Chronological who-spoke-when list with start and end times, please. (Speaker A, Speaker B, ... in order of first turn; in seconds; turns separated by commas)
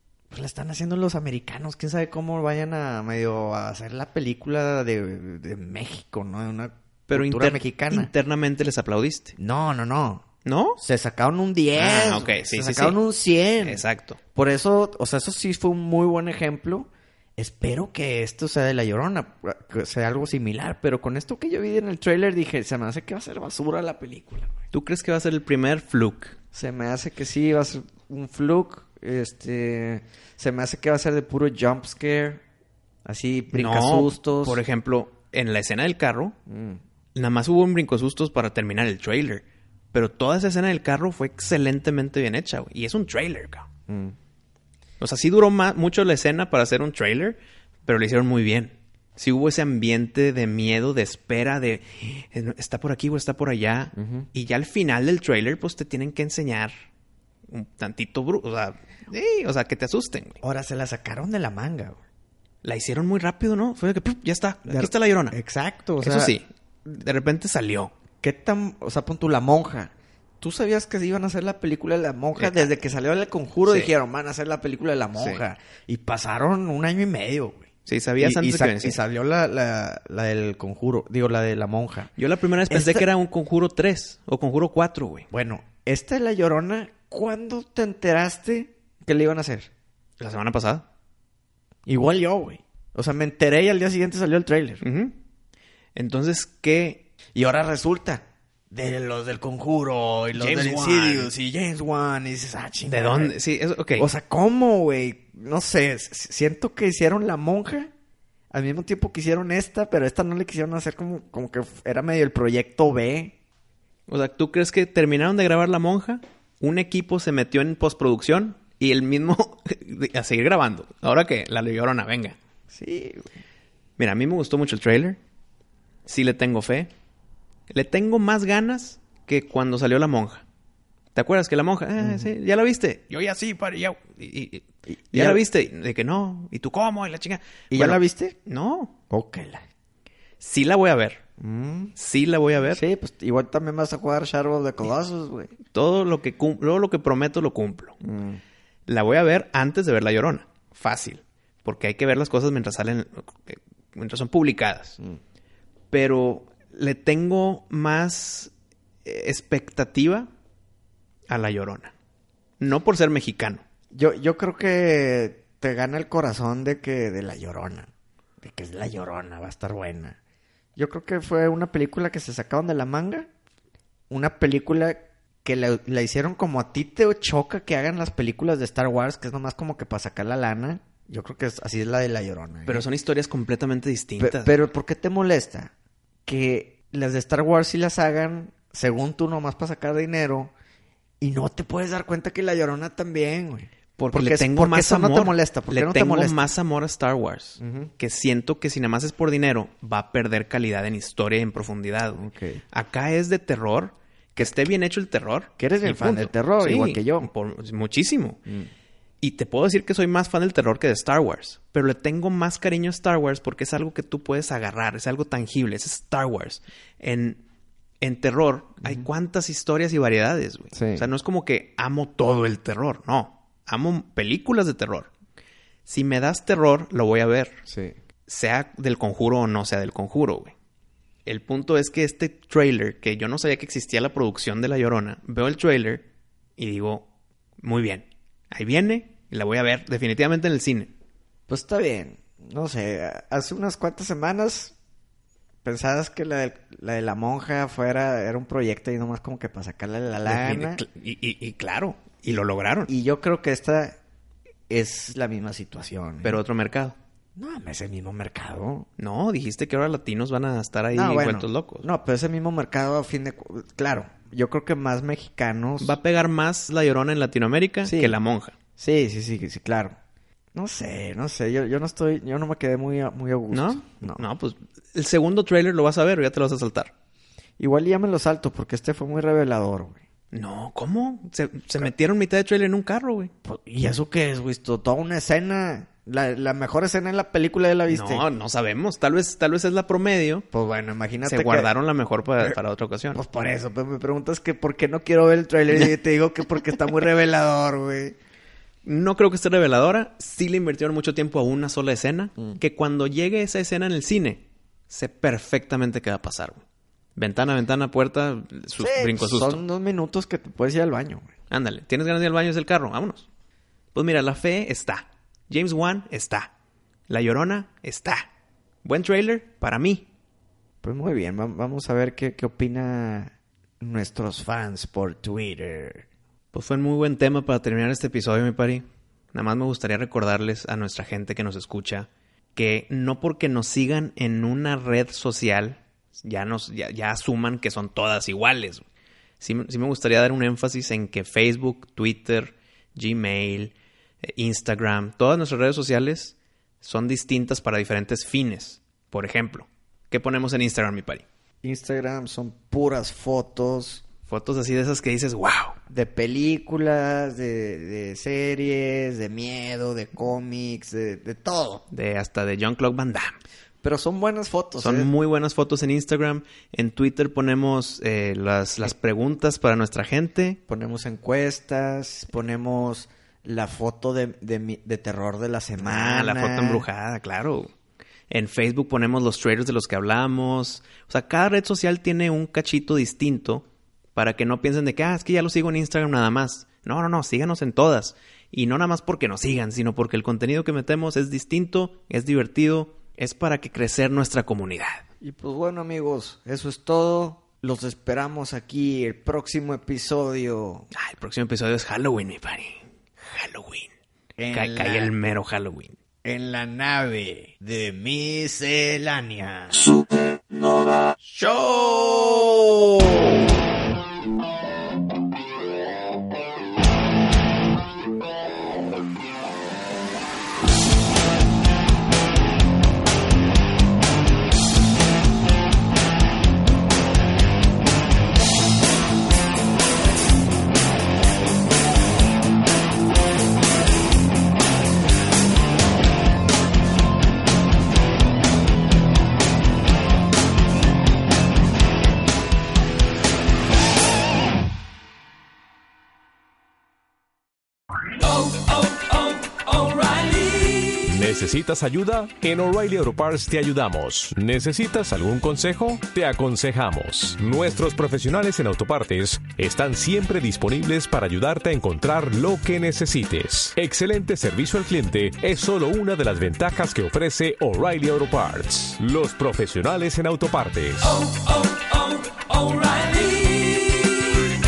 Speaker A: 0.3-8.1, Speaker B: 7.1-9.3, Speaker A: 9.4-10.2, Speaker B: 10.4-10.8, Speaker A: 10.8-13.8, Speaker B: 11.8-13.0, Speaker B: 13.6-14.2, Speaker A: 14.3-24.5, Speaker B: 24.7-26.4, Speaker A: 26.5-32.4, Speaker A: 33.0-34.6, Speaker B: 33.5-36.4, Speaker A: 36.5-36.8, Speaker B: 37.1-43.7, Speaker A: 43.9-44.1, Speaker B: 45.0-56.7, Speaker A: 54.0-54.3, Speaker B: 57.5-60.4, Speaker A: 60.4-62.0, Speaker B: 62.6-65.4, Speaker A: 64.7-66.4, Speaker B: 66.0-67.9, Speaker A: 68.2-82.1, Speaker B: 72.4-72.7, Speaker B: 73.7-73.9, Speaker B: 75.2-75.4, Speaker B: 77.9-79.0, Speaker B: 82.2-85.3, Speaker A: 82.7-83.1, Speaker A: 85.3-89.7, Speaker B: 90.2-90.8, Speaker A: 91.9-94.8, Speaker B: 94.8-95.2, Speaker B: 96.0-97.0, Speaker A: 97.3-103.4, Speaker B: 100.3-101.3, Speaker B: 102.9-104.1, Speaker A: 104.0-107.9, Speaker A: 108.5-113.3, Speaker B: 114.1-122.4, Speaker A: 122.7-123.3, Speaker B: 124.0-125.2, Speaker B: 126.1-126.9, Speaker B: 127.7-130.4, Speaker B: 131.1-138.9, Speaker A: 132.0-132.3, Speaker A: 134.9-135.4, Speaker A: 137.7-138.3, Speaker A: 139.1-139.6, Speaker B: 140.4-141.2, Speaker A: 141.4-141.9, Speaker B: 142.0-142.8, Speaker A: 142.7-145.5, Speaker B: 145.7-148.0, Speaker A: 148.0-148.4, Speaker B: 148.9-155.0, Speaker B: 155.9-158.5, Speaker B: 159.1-160.3, Speaker B: 161.3-161.9, Speaker B: 162.6-163.6, Speaker A: 163.9-167.9, Speaker A: 168.4-170.2, Speaker A: 170.8-173.3, Speaker A: 174.1-182.8, Speaker B: 182.7-184.5, Speaker A: 184.2-185.7, Speaker A: 186.3-190.5, Speaker A: 191.2-196.4, Speaker B: 194.0-208.4, Speaker A: 197.6-197.9, Speaker A: 202.1-202.6, Speaker A: 204.4-204.7, Speaker A: 205.6-207.3, Speaker B: 209.2-217.4, Speaker B: 218.0-225.1, Speaker A: 220.7-221.1, Speaker B: 225.9-227.6, Speaker A: 227.7-227.9, Speaker B: 228.3-230.6, Speaker B: 231.2-236.1, Speaker B: 236.6-237.1, Speaker B: 237.6-240.9, Speaker A: 241.5-244.7, Speaker A: 245.6-250.8, Speaker B: 250.2-252.9, Speaker A: 252.9-254.0, Speaker A: 254.7-256.4, Speaker B: 256.2-257.0, Speaker A: 257.4-258.9, Speaker B: 259.0-261.9, Speaker A: 260.9-266.0, Speaker B: 265.8-268.6, Speaker A: 267.8-268.2, Speaker A: 268.8-270.0, Speaker A: 270.5-274.2, Speaker B: 273.5-276.9, Speaker A: 277.6-280.0, Speaker B: 280.3-283.3, Speaker A: 283.4-288.2, Speaker B: 287.9-290.5, Speaker A: 290.5-291.7, Speaker B: 291.2-293.2, Speaker A: 293.1-298.2, Speaker B: 298.8-306.6, Speaker B: 307.2-309.6, Speaker A: 308.8-311.3, Speaker B: 311.5-313.3, Speaker B: 313.9-316.5, Speaker B: 317.1-318.2, Speaker B: 318.8-320.1, Speaker A: 320.8-326.1, Speaker B: 326.5-338.9, Speaker B: 339.4-351.2, Speaker A: 351.6-354.0, Speaker B: 354.3-355.8, Speaker A: 355.9-361.8, Speaker B: 361.9-363.4, Speaker A: 363.8-365.1, Speaker B: 364.8-370.6, Speaker A: 370.7-376.8, Speaker B: 375.8-377.7, Speaker B: 378.3-395.1, Speaker A: 395.2-400.9, Speaker B: 400.9-403.9, Speaker A: 404.4-405.1, Speaker B: 404.5-406.0, Speaker A: 406.2-409.9, Speaker A: 411.2-413.4, Speaker C: 448.5-474.1